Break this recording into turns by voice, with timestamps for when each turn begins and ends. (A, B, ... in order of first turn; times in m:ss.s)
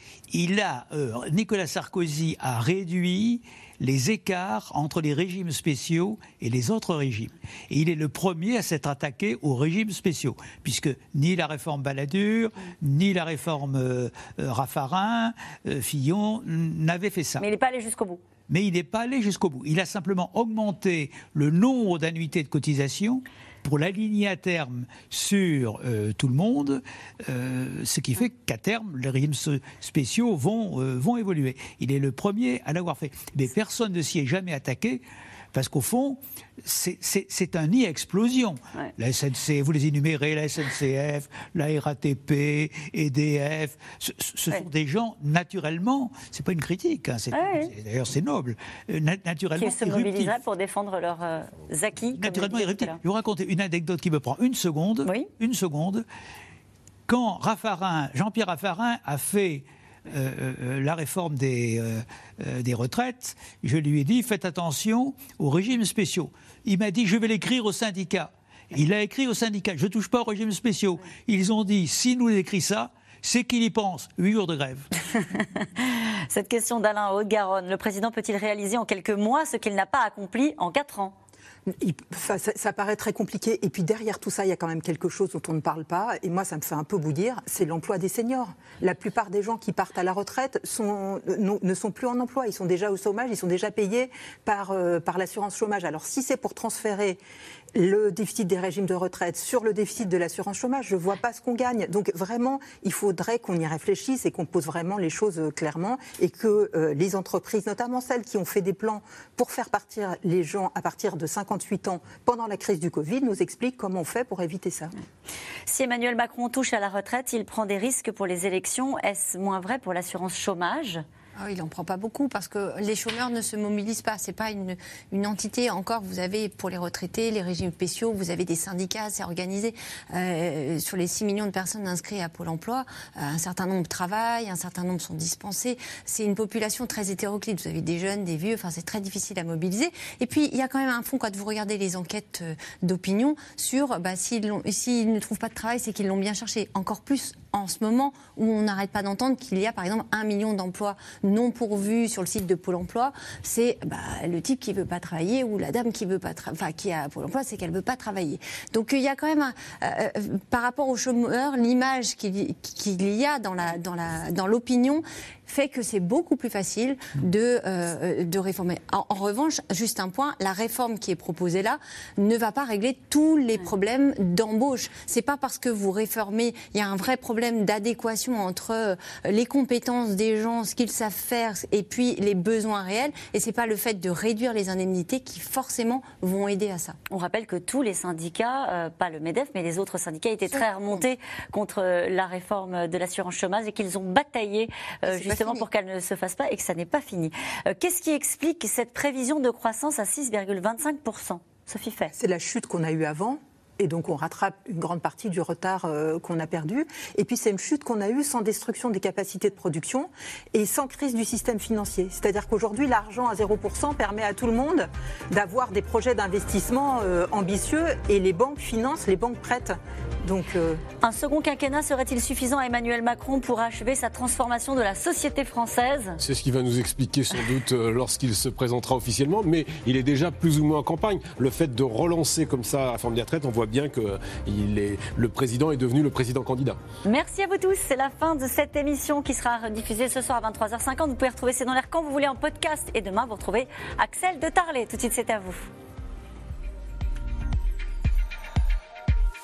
0:00.3-0:17.4 A
0:17.4-0:18.2 B
0:18.5-0:50.3 A
0:47.3-0:47.7 B
0:49.6-0:53.0 B
0:52.2-0:56.0 A
0:57.1-1:14.9 A
1:15.1-1:21.2 B
1:21.8-1:37.2 C
1:37.8-1:54.9 C
1:55.7-2:01.0 B
2:01.4-3:07.0 D
3:07.1-3:22.1 B
3:22.1-3:40.8 C
3:41.0-3:46.2 B
3:46.2-3:56.8 E
3:57.0-4:05.7 B